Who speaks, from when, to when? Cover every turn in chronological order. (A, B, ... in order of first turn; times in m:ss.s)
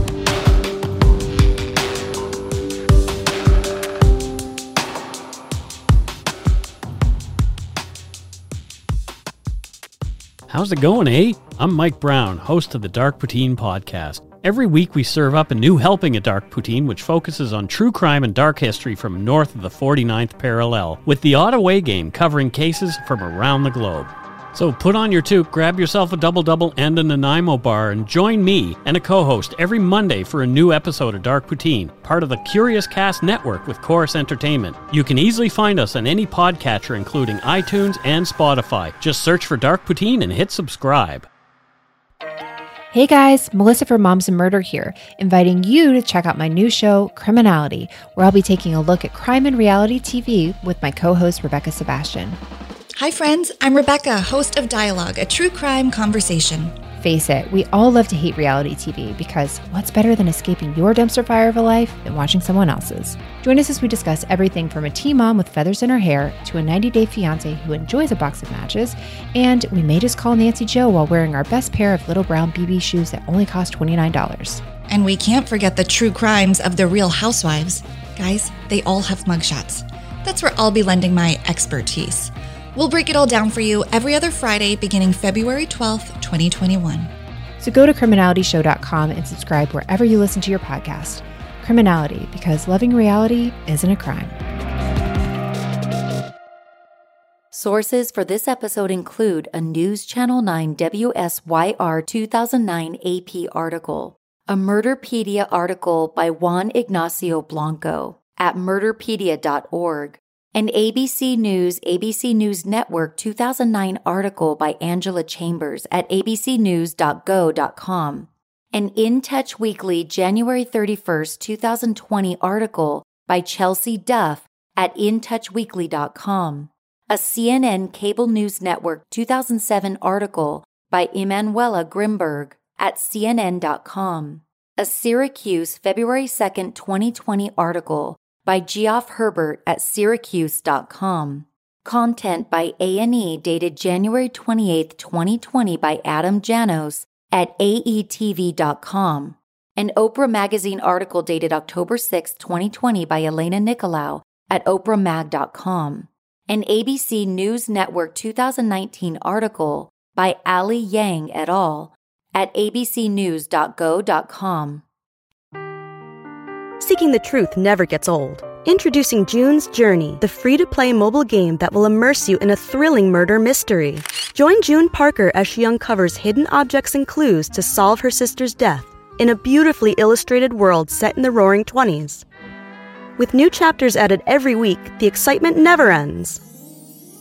0:10.5-0:41.3 A
0:42.9-0:52.4 B
0:53.0-0:56.8 C
0:57.0-1:14.6 B
1:14.9-1:27.1 C
1:27.6-1:34.4 B
1:37.5-2:44.8 D
2:46.8-3:02.2 E
3:03.2-3:06.4 E